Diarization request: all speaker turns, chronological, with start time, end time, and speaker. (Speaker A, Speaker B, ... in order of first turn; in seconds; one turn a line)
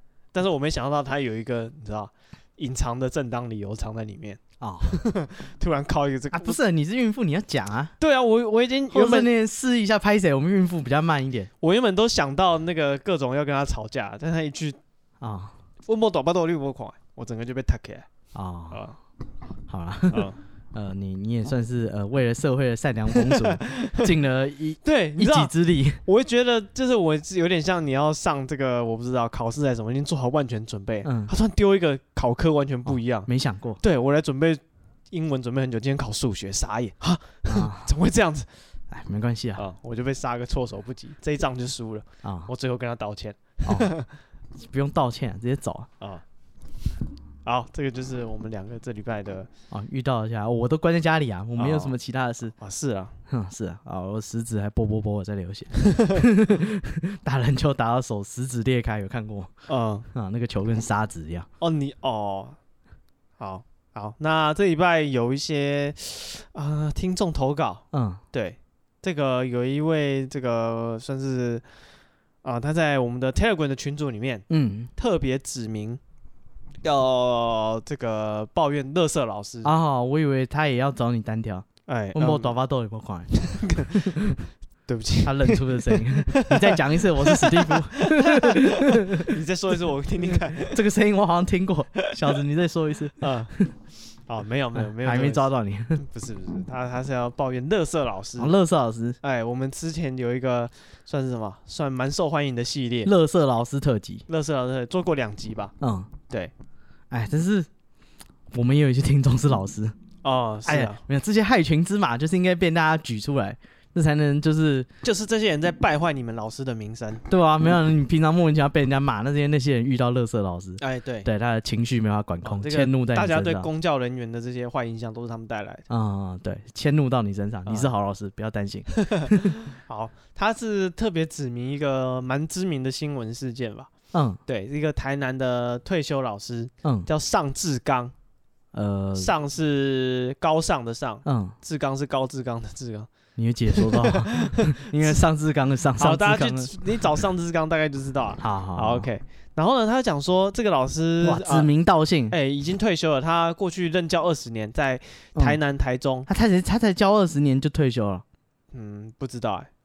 Speaker A: 0.3-6.6
Speaker B: 4.6-5.0
Speaker B: 6.3-7.9
Speaker A: 8.0-9.3
Speaker B: 8.9-11.5
Speaker A: 11.6-14.8
Speaker B: 15.2-15.5
Speaker A: 15.9-18.1
Speaker B: 18.3-18.8
Speaker A: 18.7-19.0
Speaker B: 19.7-26.0
Speaker A: 20.1-20.4
Speaker A: 23.1-24.1
Speaker A: 24.8-25.5
Speaker A: 26.0-33.3
Speaker B: 31.0-31.3
Speaker B: 32.9-33.8
Speaker A: 33.8-38.5
Speaker B: 37.5-37.9
Speaker B: 38.9-39.6
Speaker A: 39.6-44.1
Speaker B: 42.2-42.5
Speaker B: 43.6-43.9
Speaker B: 44.6-45.9
Speaker A: 47.4-49.5
Speaker B: 49.7-52.5
Speaker A: 51.6-51.9
Speaker A: 52.6-53.1
Speaker B: 53.3-59.5
Speaker A: 55.8-56.2
Speaker A: 59.7-60.1
Speaker B: 60.1-61.5
Speaker A: 61.6-62.6
Speaker A: 63.4-71.6
Speaker B: 67.9-68.2
Speaker A: 72.4-76.0
Speaker B: 74.5-74.9
Speaker A: 76.8-79.7
Speaker B: 79.6-83.4
Speaker A: 81.9-82.5
Speaker A: 83.3-84.2
Speaker B: 83.9-84.4
Speaker A: 84.9-90.8
Speaker B: 85.2-89.3
Speaker B: 90.6-93.7
Speaker A: 93.2-93.5
Speaker A: 94.3-98.5
Speaker B: 94.8-96.0
Speaker B: 98.4-99.2
Speaker A: 99.2-103.1
Speaker B: 103.0-104.2
Speaker A: 104.3-105.7
Speaker B: 105.8-106.1
Speaker B: 107.1-107.7
Speaker B: 108.5-110.0
Speaker A: 110.2-111.0
Speaker B: 110.7-114.9
Speaker A: 115.0-117.2
Speaker B: 117.3-123.7
Speaker A: 120.8-121.3
Speaker A: 122.4-125.8
Speaker B: 125.9-129.5
Speaker A: 129.0-133.9
Speaker B: 134.1-134.4
Speaker A: 134.4-138.1
Speaker B: 136.8-137.1
Speaker B: 138.7-139.3
Speaker A: 139.1-143.1
Speaker B: 141.2-141.5
Speaker B: 143.4-147.0
Speaker A: 143.7-145.2
Speaker A: 146.0-151.7
Speaker B: 148.4-149.1
Speaker B: 151.2-152.3
Speaker A: 152.3-156.3
Speaker B: 156.3-158.2
Speaker A: 158.7-159.7